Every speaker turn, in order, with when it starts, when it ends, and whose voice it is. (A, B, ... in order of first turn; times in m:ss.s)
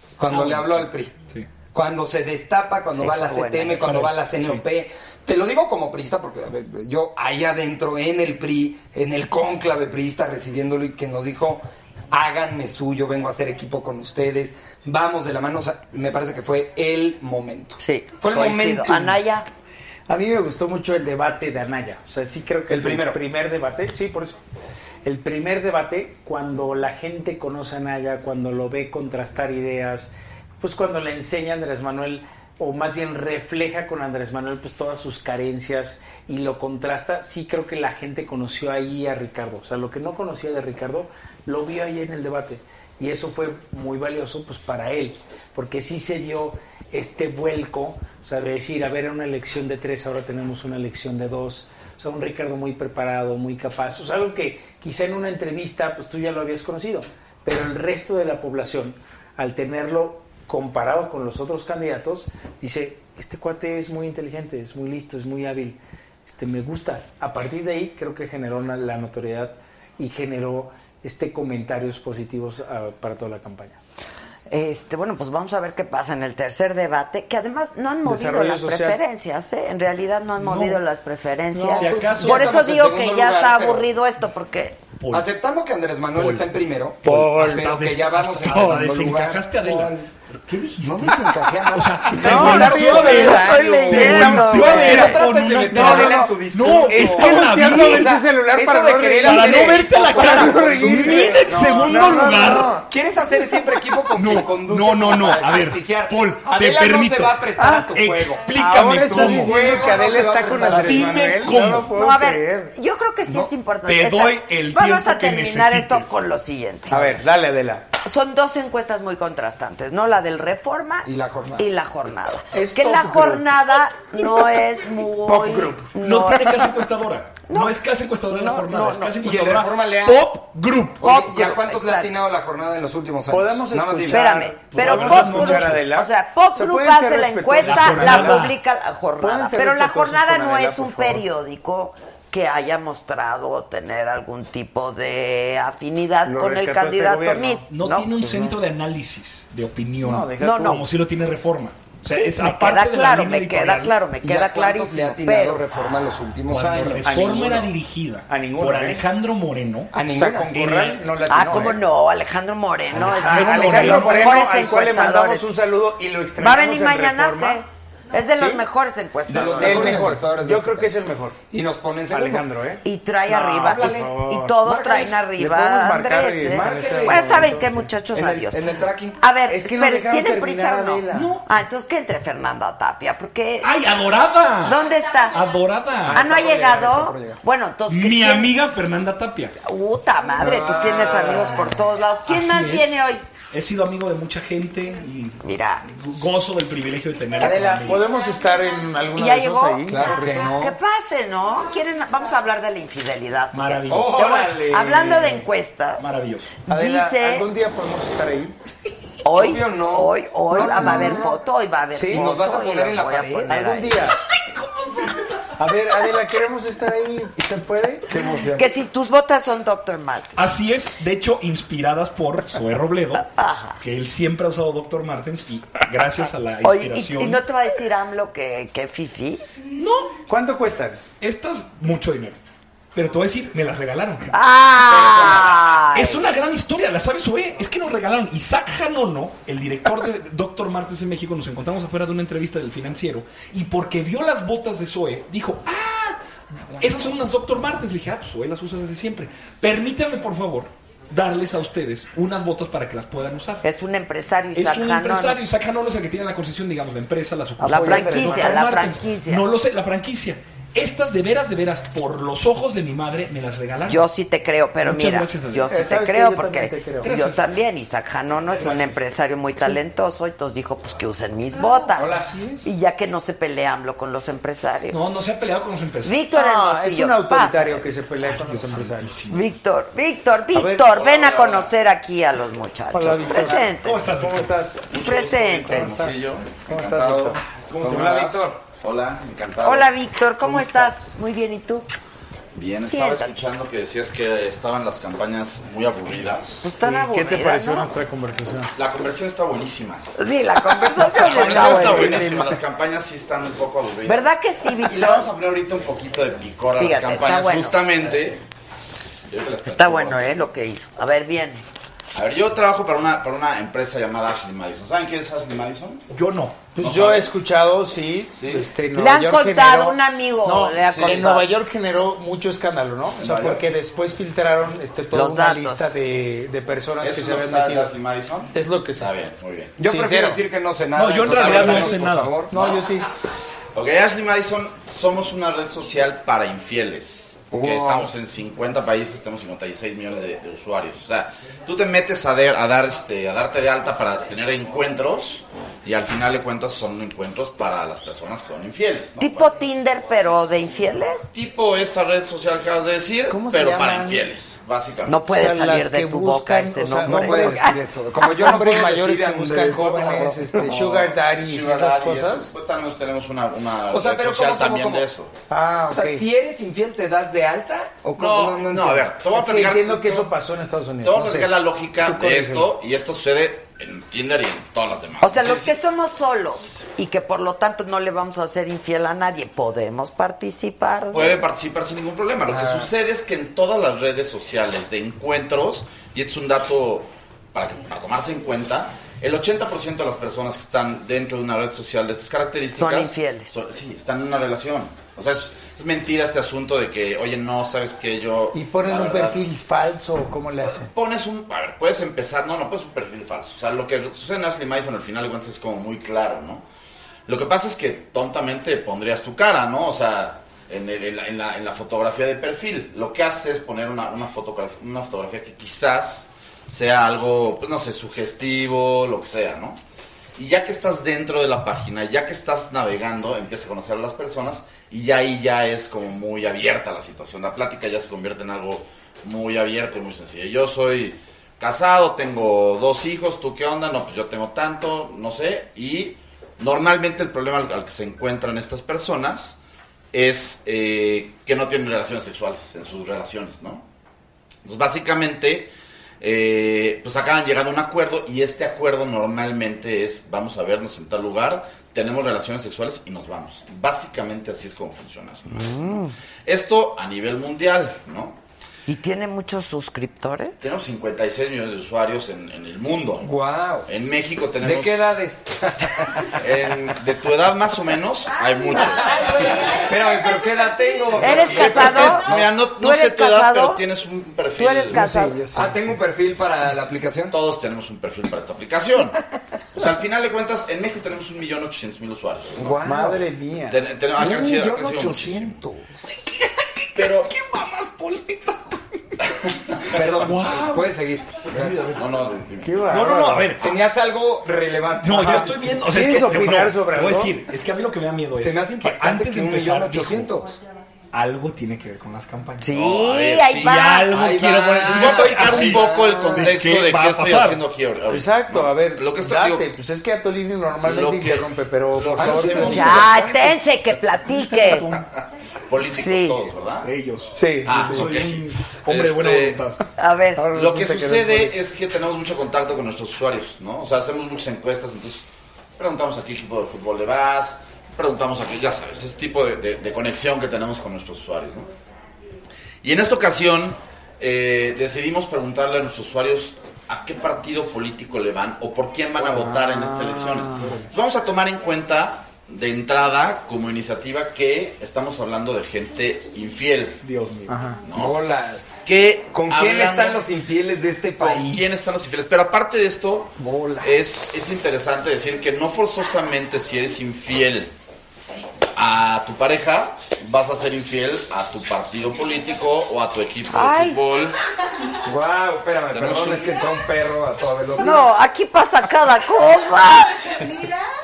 0:00.2-0:01.2 A
0:00.3-0:01.5 B
0:01.7-0:19.2 A
0:03.0-0:03.9 C
0:03.8-0:04.6 B
0:17.8-0:19.5 C
0:20.1-0:24.4 D
0:22.7-0:23.2 A
0:25.0-1:13.8 D
1:14.5-1:24.8 C
1:18.0-1:19.0 D
1:20.4-1:20.8 B
1:21.5-1:22.7 B
1:21.8-1:23.9 A
1:25.0-1:25.3 B
1:25.1-1:30.0 A
1:26.1-1:38.2 B
1:27.0-1:27.6 D
1:30.8-1:51.6 A
1:32.2-1:35.2 D
1:32.3-1:35.2 C
1:35.7-1:42.8 D
1:39.2-1:42.8 B
1:44.1-1:50.1 B
1:47.6-1:47.9 D
1:48.5-1:52.7 D
1:50.6-1:52.0 B
1:51.8-1:57.2 C
1:53.3-1:53.5 A
1:53.8-1:56.1 B
1:56.9-1:57.9 D
1:58.0-2:06.8 C
2:01.0-2:01.7 A
2:02.5-2:03.5 D
2:05.2-2:06.0 D
2:06.0-2:11.1 B
2:07.5-2:09.2 C
2:09.2-2:10.3 A
2:11.0-2:14.3 A
2:11.0-2:12.1 C
2:13.3-2:18.5 D
2:14.1-2:28.5 C
2:14.7-2:15.9 B
2:17.6-2:18.5 B
2:19.2-2:21.2 D
2:26.2-2:27.6 D
2:27.7-2:34.0 B
2:30.0-2:30.8 D
2:30.4-2:30.8 C
2:32.0-2:35.6 C
2:34.2-2:37.4 A
2:36.5-2:39.9 B
2:37.0-2:37.7 D
2:38.3-2:39.0 D
2:39.9-2:40.6 A
2:40.1-2:41.8 D
2:40.5-2:41.6 B
2:41.3-2:45.5 C
2:43.0-2:44.4 B
2:43.0-2:47.6 D
2:46.4-2:50.1 C
2:48.3-2:48.6 D
2:49.3-2:52.5 A
2:49.3-2:51.4 D
2:52.1-2:54.6 D
2:52.8-2:58.6 C
2:53.4-2:55.1 A
2:55.3-2:57.9 D
2:56.5-2:59.2 A
2:59.2-3:03.7 C
2:59.5-3:01.4 D
3:01.1-3:01.4 B
3:03.6-3:04.8 B
3:04.6-3:05.4 C
3:04.8-3:05.6 E
3:05.3-3:06.2 B
3:06.0-3:07.4 A
3:06.1-3:08.5 C
3:07.9-3:09.6 B
3:09.6-3:13.3 C
3:10.4-3:11.8 A
3:12.3-3:13.0 B
3:13.5-3:18.1 B
3:15.4-3:15.9 C
3:17.4-3:20.5 D
3:19.2-3:27.5 C
3:19.8-3:20.8 A
3:23.5-3:24.3 B
3:23.9-3:25.4 D
3:26.0-3:26.6 B
3:26.7-3:28.5 D
3:29.2-3:34.1 C
3:29.3-3:31.3 A
3:30.5-3:31.3 D
3:31.9-3:32.3 D
3:32.1-3:33.6 A
3:33.5-3:34.2 D
3:34.5-3:35.1 B
3:35.6-3:38.1 D
3:38.1-3:38.7 A
3:38.5-3:40.4 C
3:40.4-3:47.4 B
3:43.2-3:43.8 C
3:46.6-3:49.4 C
3:49.8-3:50.2 B
3:50.3-3:51.1 D
3:51.2-3:52.4 B
3:52.9-3:54.3 B
3:54.3-3:56.3 C
3:55.0-4:06.2 B
4:06.7-4:13.6 B
4:13.6-4:15.4 C
4:14.6-4:24.0 B
4:17.6-4:18.7 D
4:17.6-4:19.4 C
4:23.9-4:35.0 C
4:24.8-4:25.9 B
4:25.7-4:27.1 D
4:27.0-4:27.4 B
4:28.6-4:28.9 B
4:32.0-4:32.6 B
4:34.9-4:36.2 B
4:36.0-4:37.8 C
4:36.4-4:39.1 D
4:38.2-4:39.5 B
4:39.3-4:44.0 C
4:40.5-4:41.0 D
4:40.9-4:41.7 F
4:42.9-4:48.4 D
4:43.4-4:44.5 B
4:44.9-4:49.9 F
4:45.0-4:46.0 C
4:47.7-4:48.6 A
4:49.6-4:51.9 C
4:50.5-4:50.7 D
4:52.6-4:56.7 F
4:52.8-4:53.4 C
4:56.6-4:57.9 C
4:56.8-4:58.7 D
4:58.8-5:00.0 F
5:00.2-5:02.6 C
5:00.8-5:02.1 D
5:01.2-5:08.4 F
5:01.6-5:02.2 A
5:04.1-5:05.3 C
5:06.8-5:07.8 C
5:09.3-5:10.5 F
5:09.7-5:11.6 C
5:12.1-5:16.1 F
5:16.1-5:16.7 B
5:16.8-5:27.9 D
5:16.8-5:17.3 F
5:18.4-5:18.7 F
5:18.9-5:21.5 C
5:20.9-5:21.3 F
5:23.2-5:23.7 F
5:25.1-5:25.9 C
5:27.0-5:29.8 F
5:28.5-5:29.1 D
5:29.8-5:32.6 A
5:29.8-5:30.4 D
5:30.9-5:32.4 B
5:31.3-5:31.8 F
5:31.5-5:31.9 D
5:32.5-5:33.1 D
5:32.5-5:32.9 F
5:33.7-5:49.5 F
5:37.5-5:38.1 A
5:49.2-5:51.3 C
5:51.3-5:55.3 F
5:53.3-5:54.3 D
5:55.1-5:57.8 C
5:55.3-6:02.5 D
5:57.0-6:01.0 A
6:00.6-6:05.3 F
6:03.9-6:05.1 A
6:05.5-6:06.2 D
6:05.8-6:09.1 A
6:08.2-6:10.3 F
6:09.3-6:12.7 D
6:11.0-6:15.8 F
6:15.2-6:21.4 C
6:21.1-6:39.4 F
6:22.5-6:22.9 A
6:32.8-6:33.6 C
6:38.5-6:40.9 D
6:40.6-6:46.6 F
6:47.3-6:59.8 F
7:00.4-7:19.6 F
7:20.1-7:23.8 F
7:24.6-7:38.4 F
7:35.5-7:36.1 C
7:38.9-7:40.6 C
7:40.6-7:43.3 F
7:43.2-7:43.9 A
7:43.9-7:45.2 F
7:44.6-7:46.3 A
7:46.3-7:49.7 F
7:48.4-7:51.3 E
7:48.8-7:52.6 A
7:51.2-7:53.8 C
7:51.3-7:55.1 F
7:54.6-7:55.4 C
7:54.9-7:56.0 D
7:55.5-7:57.4 A
7:57.3-7:59.2 F
7:59.8-8:02.8 F
8:02.6-8:03.3 A
8:02.8-8:03.8 D
8:03.7-8:05.6 F
8:04.2-8:05.9 A
8:06.1-8:08.8 B
8:07.0-8:07.3 F
8:09.8-8:12.0 A
8:09.9-8:12.1 B
8:11.9-8:13.0 F
8:12.6-8:13.5 D
8:12.9-8:13.8 B
8:13.6-8:15.7 A
8:15.0-8:20.4 B
8:15.8-8:17.3 D
8:18.4-8:20.6 A
8:21.1-8:22.8 B
8:22.6-8:24.1 C
8:22.7-8:23.9 F
8:23.6-8:27.6 B
8:24.1-8:26.6 A
8:24.8-8:29.7 F
8:28.1-8:32.9 D
8:30.8-8:33.4 F
8:32.1-8:33.4 A
8:32.6-8:33.1 B
8:32.6-8:34.9 C
8:34.3-8:35.1 B
8:35.7-8:36.9 F
8:35.9-8:36.4 C
8:36.8-8:39.8 B
8:37.4-8:38.2 D
8:37.6-8:39.6 F
8:40.0-8:40.4 C
8:40.4-8:41.6 D
8:40.5-8:45.3 F
8:45.8-8:51.7 F
8:52.8-9:07.0 F
8:59.2-9:00.9 D
9:07.0-9:07.5 B
9:07.5-9:07.8 D
9:07.8-9:08.2 F
9:07.9-9:11.7 A
9:08.8-9:10.3 F
9:11.2-9:17.7 F
9:13.4-9:14.0 A
9:18.8-9:24.4 F
9:23.5-9:24.0 C
9:25.0-9:28.1 A
9:25.9-9:26.6 F
9:27.8-9:30.4 C
9:30.3-9:30.8 E